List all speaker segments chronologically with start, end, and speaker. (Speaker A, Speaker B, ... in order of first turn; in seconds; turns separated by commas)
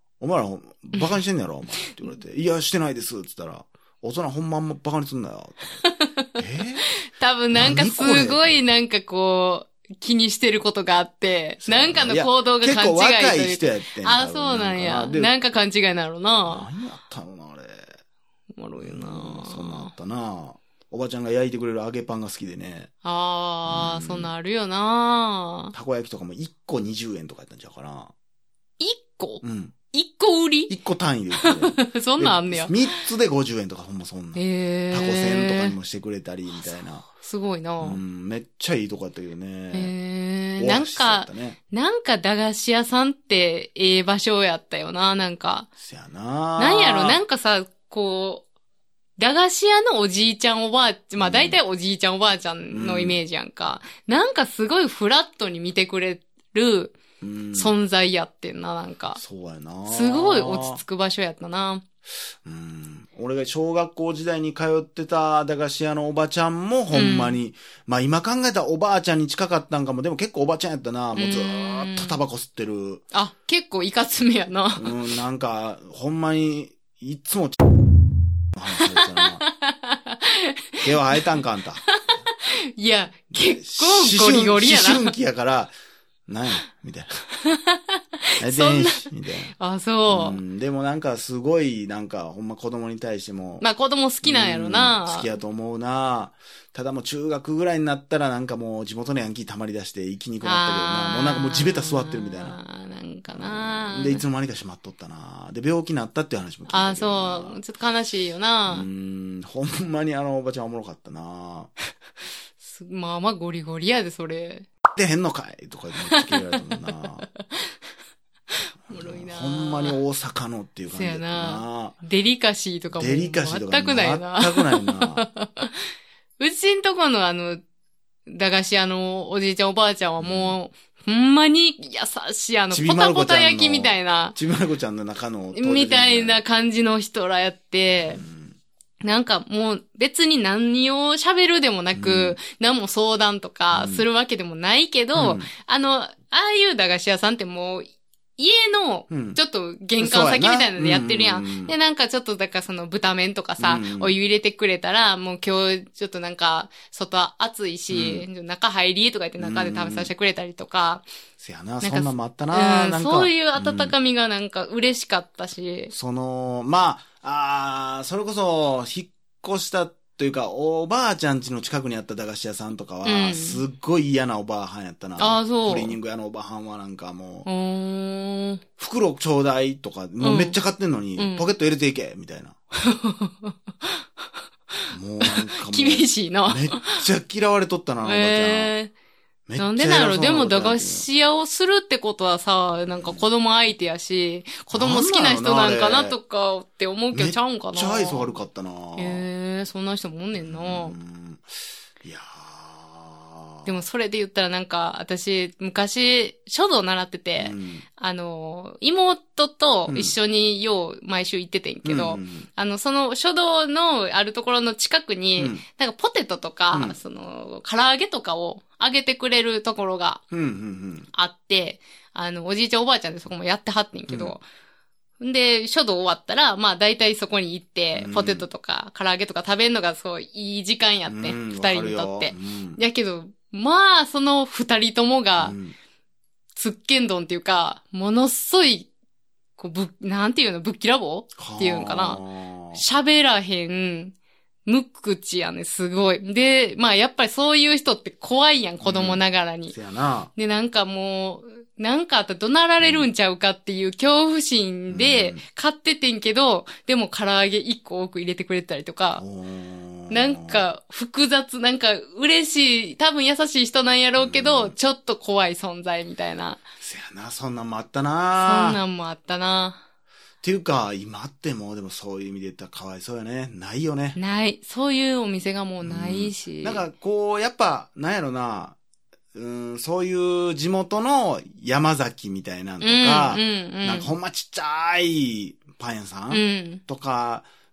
Speaker A: 0.2-5.8, Speaker B: 5.8-6.3, Speaker A: 6.3-6.9, Speaker B: 7.0-16.7, Speaker A: 7.5-8.6, Speaker A: 11.6-15.3, Speaker A: 16.5-17.9, Speaker B: 18.6-19.9, Speaker A: 18.8-22.9, Speaker B: 23.0-25.7, Speaker A: 23.6-24.3, Speaker A: 25.7-28.1, Speaker B: 28.8-30.7, Speaker A: 29.4-29.7, Speaker A: 30.7-37.1, Speaker B: 31.4-33.0, Speaker B: 34.3-35.8, Speaker B: 36.6-38.0, Speaker A: 37.8-39.9, Speaker B: 39.7-45.7, Speaker A: 40.6-41.6, Speaker A: 45.8-47.2, Speaker B: 46.6-48.4, Speaker B: 49.2-56.9, Speaker A: 51.2-51.6, Speaker A: 52.7-53.2, Speaker A: 57.2-57.7, Speaker B: 57.5-59.2, Speaker A: 59.1-60.8, Speaker B: 59.9-61.8, Speaker A: 62.4-73.0, Speaker B: 66.9-67.4, Speaker B: 71.1-72.2, Speaker B: 73.1-75.0, Speaker A: 74.8-77.6, Speaker A: 78.5-79.4, Speaker B: 78.9-80.6, Speaker A: 80.8-81.8, Speaker B: 81.9-85.1, Speaker A: 83.3-85.7, Speaker A: 86.3-87.2, Speaker B: 87.4-89.1, Speaker A: 88.4-89.5, Speaker B: 89.6-90.4, Speaker A: 90.1-93.7, Speaker B: 93.6-95.3, Speaker A: 94.2-102.6, Speaker B: 100.4-104.2, Speaker A: 103.3-107.6, Speaker B: 106.7-108.8, Speaker A: 108.7-111.7, Speaker B: 112.6-114.7, Speaker A: 114.9-117.2, Speaker B: 116.0-117.8, Speaker B: 118.9-120.0, Speaker A: 118.9-122.0, Speaker B: 120.9-125.9, Speaker A: 123.0-125.2, Speaker B: 126.4-127.6, Speaker B: 128.2-134.3, Speaker A: 130.2-130.6, Speaker A: 132.7-136.4, Speaker B: 135.5-138.2, Speaker A: 138.0-138.6, Speaker B: 139.0-161.1, Speaker A: 141.9-142.4, Speaker A: 143.7-144.1, Speaker A: 145.1-145.5, Speaker A: 149.1-149.4, Speaker A: 150.0-151.7, Speaker A: 153.6-154.1, Speaker A: 157.9-158.2, Speaker A: 159.4-160.1, Speaker A: 161.4-163.9, Speaker B: 161.8-165.9, Speaker A: 165.9-177.5, Speaker B: 173.0-173.6, Speaker B: 175.2-175.9, Speaker B: 177.4-178.6, Speaker A: 178.8-182.6, Speaker B: 180.2-180.6, Speaker B: 181.2-181.4, Speaker B: 182.8-183.5, Speaker A: 184.9-188.7, Speaker B: 185.2-187.0, Speaker B: 188.0-188.9, Speaker A: 189.5-191.1, Speaker B: 189.6-198.3, Speaker A: 194.7-196.2, Speaker A: 197.1-199.2, Speaker B: 199.0-201.0, Speaker A: 200.3-201.4, Speaker A: 202.0-203.8, Speaker B: 203.7-220.2, Speaker A: 207.4-207.8, Speaker A: 209.9-210.1, Speaker A: 211.8-212.5, Speaker A: 215.4-215.6, Speaker A: 220.3-221.1, Speaker B: 221.1-224.4, Speaker A: 224.1-224.3, Speaker B: 225.2-235.6, Speaker A: 227.9-228.4, Speaker A: 231.1-232.8, Speaker A: 235.4-235.7, Speaker B: 236.5-238.9, Speaker B: 239.6-242.2, Speaker A: 241.4-242.8, Speaker B: 242.7-244.1, Speaker B: 244.6-249.7, Speaker A: 248.8-250.3, Speaker B: 250.3-259.2, Speaker A: 252.8-253.1, Speaker A: 254.9-255.4, Speaker A: 259.2-260.6, Speaker B: 260.1-266.6, Speaker A: 264.2-264.7, Speaker A: 266.8-268.8, Speaker B: 268.3-269.8, Speaker A: 270.4-274.2, Speaker B: 274.1-276.8, Speaker A: 275.8-278.8, Speaker A: 279.3-287.4, Speaker B: 282.8-284.1, Speaker B: 286.3-286.8